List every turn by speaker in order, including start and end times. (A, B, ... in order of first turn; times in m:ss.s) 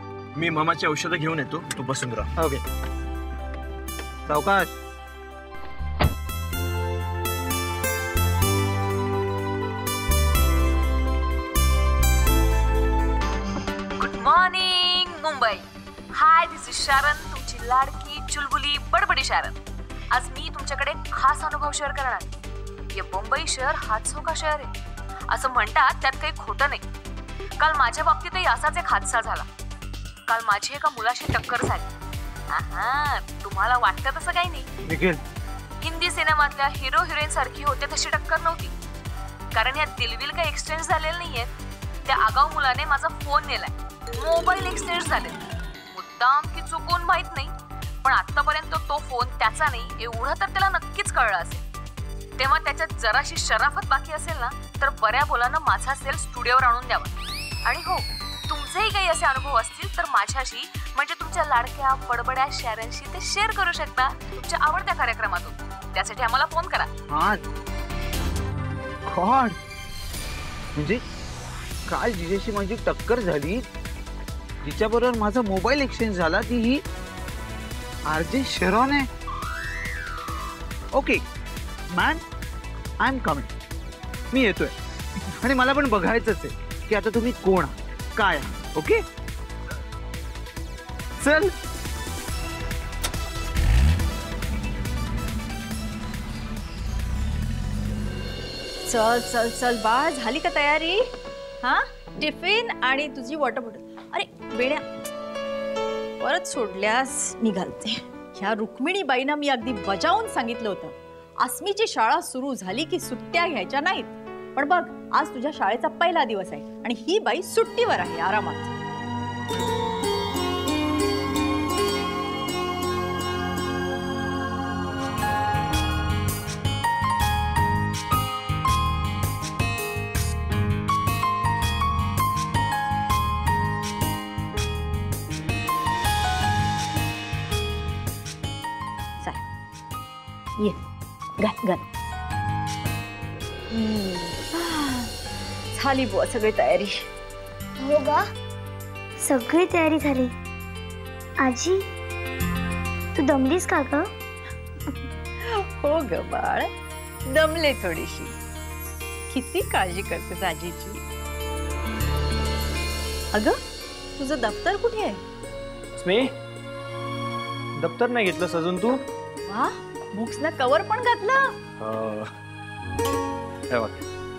0:00.3-0:02.3 A
0:02.4-0:02.6 B
0:04.3-0:04.8 B
0:14.0-0:19.5 C
0:20.1-0:22.3 C
0:22.9-0:24.7 C
0:25.3-0:26.8 C
0:27.6-0:29.5 C
0:30.3-0:31.9 C
0:32.5-0:34.7 C
0:34.8-0:35.2 B
0:35.8-0:38.7 C
0:39.5-0:41.5 C
0:42.0-0:45.4 C
0:45.9-0:47.5 C
0:48.0-0:51.6 C
0:52.4-0:57.1 C
0:57.6-1:06.9 C
1:07.1-1:07.4 B
1:09.1-1:09.6 B
1:10.8-1:11.0 B
1:11.9-1:13.6 B
1:14.6-1:16.8 B
1:18.1-1:19.1 B
1:20.9-1:21.2 B
1:21.9-1:22.2 B
1:23.0-1:23.5 B
1:24.3-1:24.7 B
1:25.4-1:29.0 B
1:31.2-1:31.6 B
1:38.8-1:41.0 D
1:41.6-1:44.8 D
1:46.2-1:58.7 D
2:21.4-2:21.8 D
2:23.7-2:25.1 D
2:25.7-2:27.0 D
2:27.8-2:28.2 E
2:29.2-2:30.3 E
2:31.4-2:31.8 E
2:33.2-2:34.1 E
2:35.4-2:36.7 D
2:37.3-2:38.3 D
2:39.3-2:41.0 D
2:44.2-2:45.2 D
2:46.0-2:46.3 A
2:47.8-2:49.0 A
2:49.5-2:51.6 D
2:51.8-2:52.3 A
2:53.7-2:54.0 A